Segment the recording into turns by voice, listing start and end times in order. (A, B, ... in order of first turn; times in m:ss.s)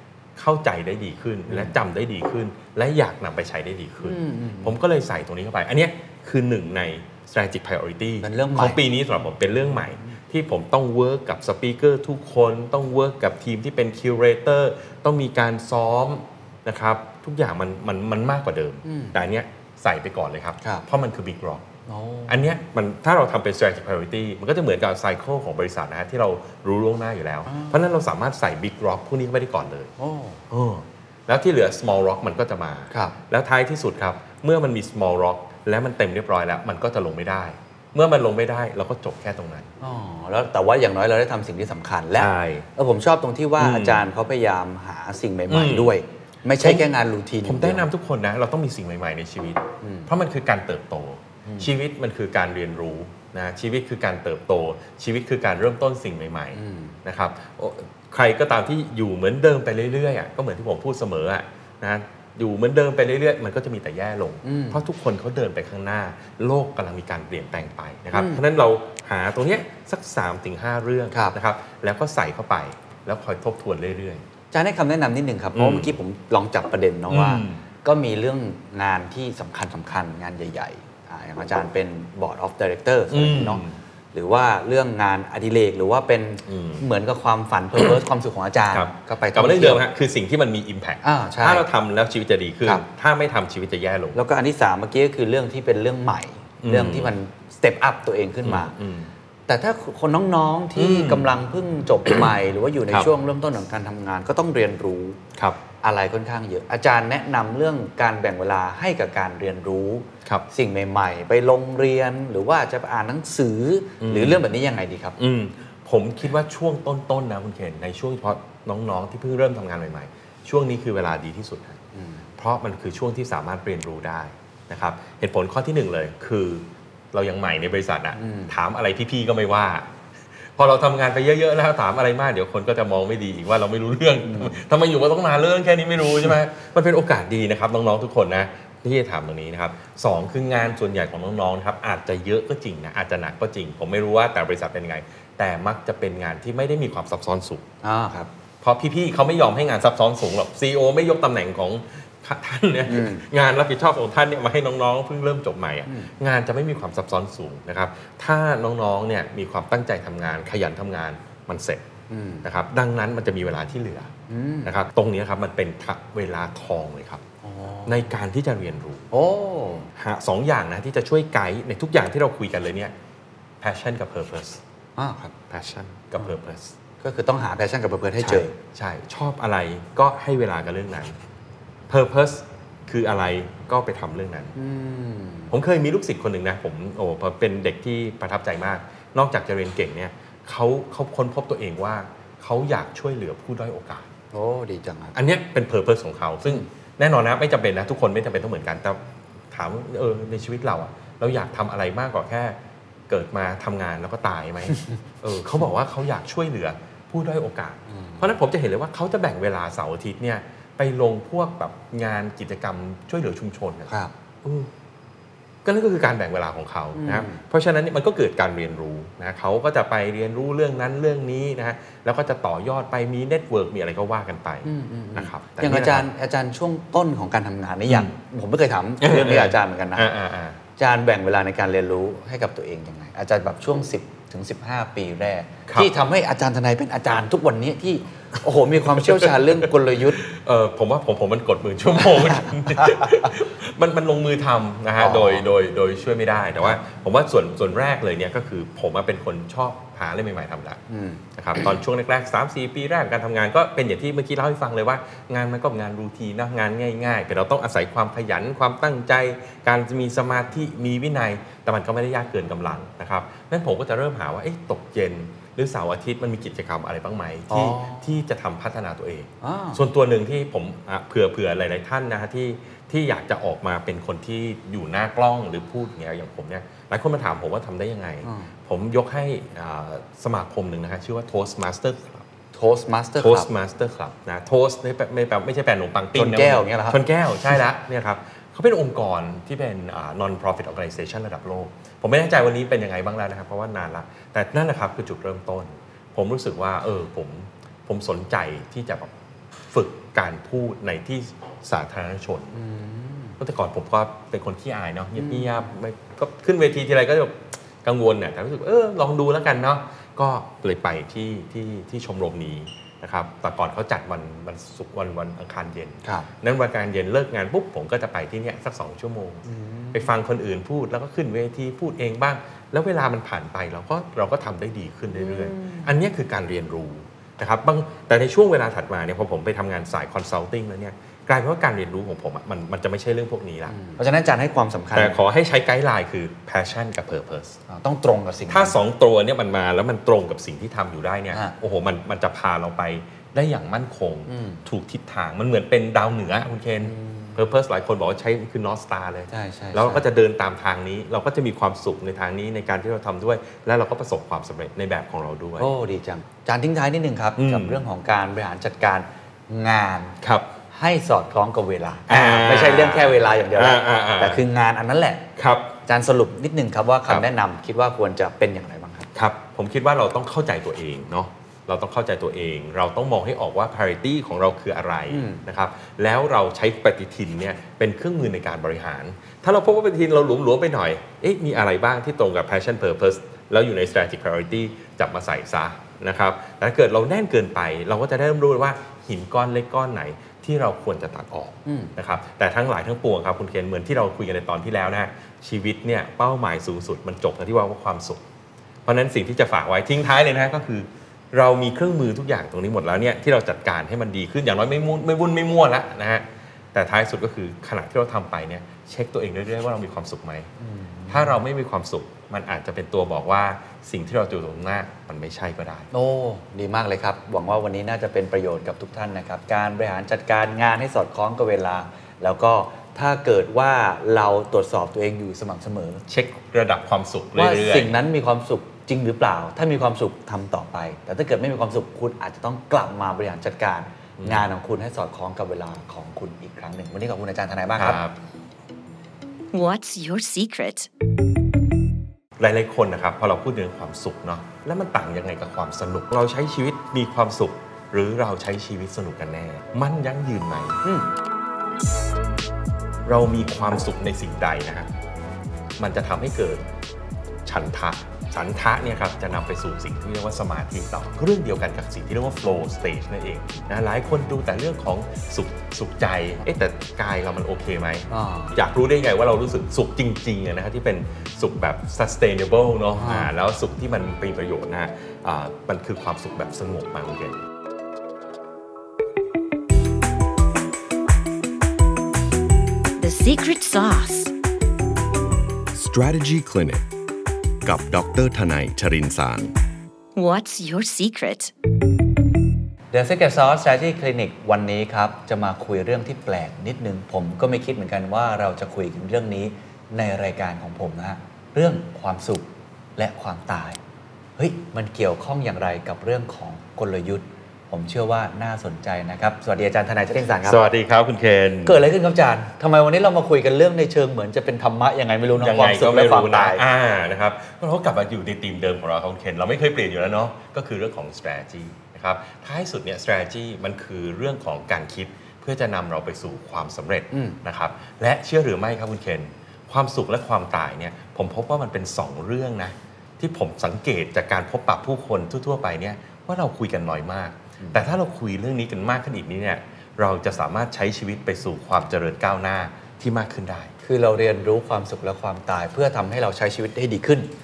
0:00.4-0:21.7 A
0:01.5-0:01.7 B
0:04.0-0:04.8 B
0:08.2-0:08.8 B
0:18.8-0:19.2 B
0:21.9-0:22.4 B
0:22.3-0:29.9 A
0:27.5-0:27.8 B
0:30.0-0:30.4 B
0:30.5-0:39.7 A
0:32.9-0:33.2 B
0:39.8-0:47.9 B
0:42.2-0:42.7 A
0:43.6-0:44.0 A
0:45.5-0:46.0 A
0:46.6-0:46.9 A
0:47.4-1:14.2 A
0:49.8-0:50.1 B
0:56.5-0:57.0 B
1:04.4-1:04.8 B
1:08.1-1:08.4 B
1:14.5-1:23.6 B
1:15.6-1:16.0 A
1:17.1-1:17.6 A
1:23.1-1:23.8 A
1:24.1-1:29.8 B
1:26.5-1:26.8 A
1:28.7-1:34.2 A
1:31.0-1:31.7 B
1:34.2-1:38.7 B
1:36.6-1:37.1 A
1:38.4-1:39.1 A
1:39.5-1:45.2 B
1:40.8-1:41.3 A
1:45.8-1:55.2 B
1:54.0-1:54.4 A
1:55.2-2:01.8 A
2:01.9-2:02.3 B
2:02.4-2:09.9 A
2:08.2-2:08.5 B
2:10.6-2:27.6 A
2:14.2-2:14.6 B
2:27.8-2:28.3 B
2:28.6-2:41.8 A
2:32.9-2:33.3 B
2:35.9-2:36.1 B
2:42.1-2:42.5 B
2:42.4-2:44.1 A
2:44.3-2:44.7 B
2:44.6-2:47.2 A
2:47.4-2:48.1 B
2:47.9-2:49.1 A
2:49.1-2:49.9 B
2:50.0-2:52.9 A
2:53.6-2:54.6 A
2:55.0-2:55.4 B
2:55.5-2:56.8 A
2:57.0-2:58.6 B
2:58.2-3:01.2 A
3:01.9-3:04.5 A
3:04.6-3:05.5 B
3:05.5-3:14.1 A
3:14.3-3:15.2 B
3:15.1-3:22.6 A
3:23.1-3:33.9 A
3:27.9-3:28.3 B
3:34.4-3:34.7 A
3:35.6-3:46.1 A
3:37.0-3:37.4 B
3:44.6-3:50.1 B
3:47.9-3:48.1 A
3:49.0-3:50.6 A
3:50.8-4:00.2 B
3:55.7-3:55.9 A
3:59.0-3:59.6 A
4:00.2-4:10.8 A
4:05.0-4:05.5 B
4:10.9-4:11.2 B
4:11.4-4:42.3 A
4:27.5-4:28.1 B
4:29.4-4:29.8 B
4:38.2-4:38.5 B
4:42.5-4:43.5 B
4:43.2-4:59.1 A
4:46.2-4:47.0 B
4:59.7-5:02.6 A
5:02.5-5:03.4 B
5:03.4-5:33.8 A
5:05.2-5:05.6 B
5:19.5-5:20.1 B
5:25.2-5:25.9 B
5:33.7-5:35.2 B
5:35.0-5:37.6 A
5:37.7-5:38.8 B
5:38.5-5:55.7 A
5:44.3-5:44.6 B
5:46.8-5:47.4 B
5:49.3-5:50.1 B
5:55.6-6:00.2 B
5:57.4-5:57.8 A
6:00.2-6:00.5 A
6:00.7-6:05.2 B
6:02.1-6:04.4 A
6:05.4-6:05.7 A
6:05.9-6:09.1 B
6:09.1-6:38.2 A
6:15.1-6:15.4 B
6:31.7-6:31.9 B
6:38.8-6:50.5 A
6:50.6-6:51.4 B
6:51.1-6:55.9 A
6:55.9-7:06.0 B
7:06.1-7:08.0 A
7:07.4-7:18.0 B
7:14.2-7:14.4 A
7:17.8-7:18.2 A
7:19.5-7:20.9 C
7:22.4-7:30.8 A
7:30.8-7:31.1 B
7:33.0-7:34.9 A
7:35.8-7:36.7 A
7:37.4-7:57.4 A
7:48.1-7:48.6 B
7:52.9-7:53.3 B
8:03.0-8:04.3 C
8:05.7-8:06.8 D
8:07.6-8:09.5 D
8:10.2-8:11.5 C
8:12.9-8:23.8 B
8:24.4-8:30.7 B
8:30.4-8:31.8 A
8:31.6-8:36.6 B
8:35.4-9:03.7 A
8:47.1-8:47.4 B
8:57.6-8:57.9 B
9:03.8-9:07.3 B